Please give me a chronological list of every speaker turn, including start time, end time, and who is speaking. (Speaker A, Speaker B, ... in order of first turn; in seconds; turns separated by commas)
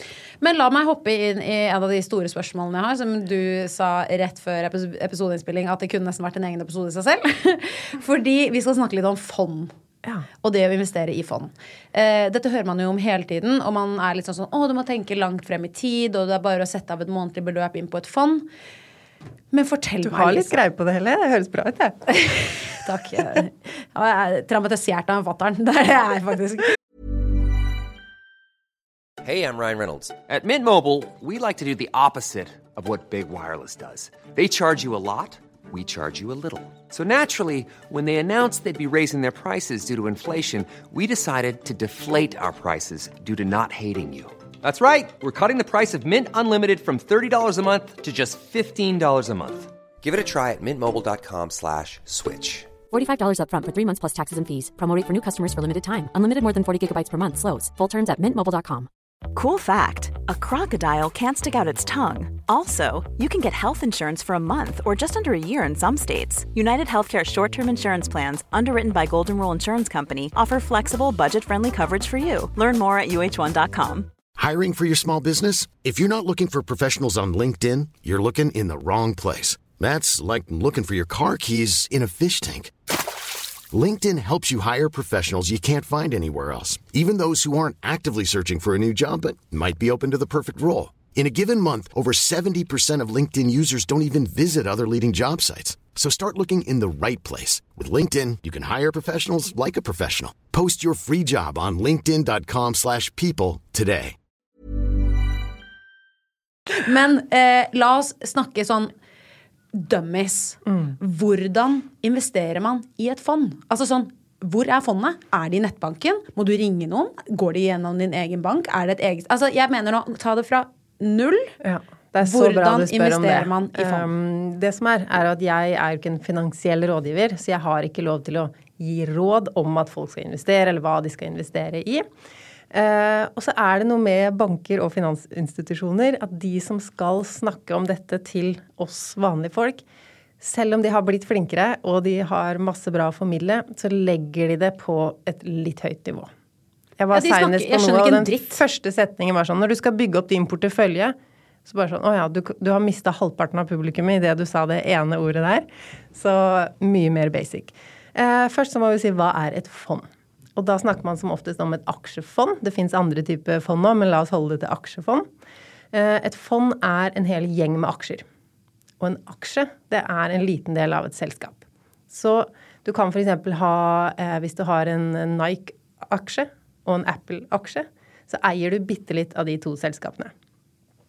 Speaker A: 0.4-9.7, Speaker A: 10.4-18.5, Speaker A: 19.5-20.6, Speaker B: 20.0-22.1, Speaker A: 22.3-26.8, Speaker C: 29.2-52.7, Speaker D: 52.9-58.9, Speaker E: 59.3-74.1, Speaker F: 74.4-83.1, Speaker F: 83.7-104.2, Speaker A: 106.7-108.9, Speaker A: 109.7-121.5, Speaker B: 121.6-132.0, Speaker A: 122.2-124.1, Speaker B: 132.7-139.8, Speaker B: 140.4-146.3, Speaker B: 147.0-165.3, Speaker A: 147.1-148.6, Speaker B: 165.9-168.2, Speaker B: 169.0-180.3